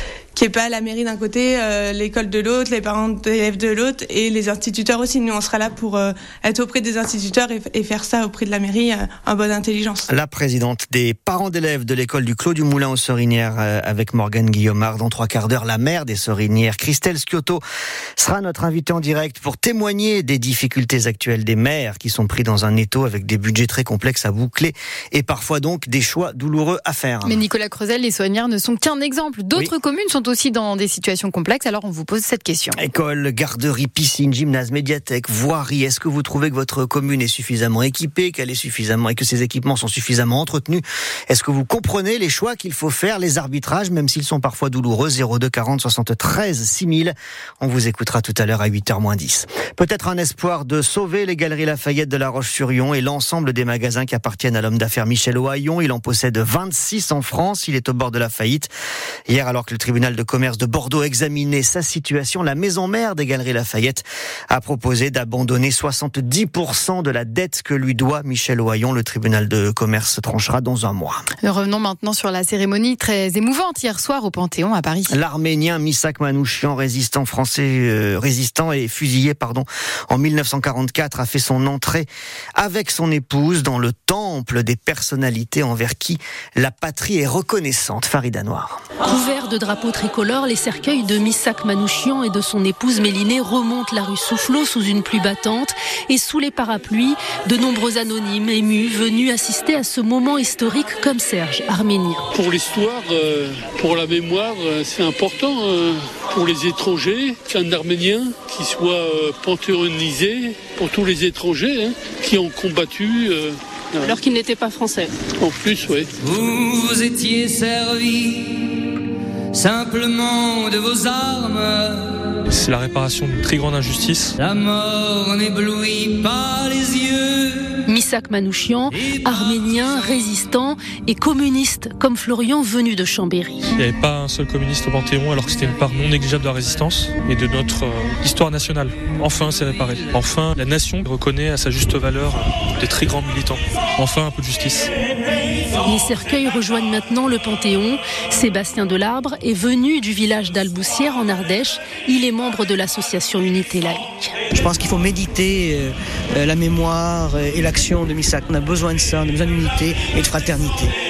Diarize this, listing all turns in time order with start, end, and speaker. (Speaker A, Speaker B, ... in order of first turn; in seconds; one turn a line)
Speaker A: 0.3-10.1
Speaker B: 10.1-17.6
Speaker B: 18.2-27.4
Speaker C: 27.2-32.8
Speaker B: 32.8-58.7
Speaker B: 59.3-71.2
Speaker C: 71.4-75.2
Speaker B: 75.1-88.8
Speaker D: 89.0-102.2
Speaker E: 102.3-114.2
Speaker D: 114.0-115.1
Speaker E: 115.4-116.1
Speaker F: 116.4-118.5
Speaker F: 119.5-122.2
Speaker G: 122.5-124.4
Speaker F: 124.4-127.7
Speaker D: 127.9-133.7
Speaker G: 133.8-144.9
Speaker D: 145.8-154.3
Speaker H: 154.6-160.9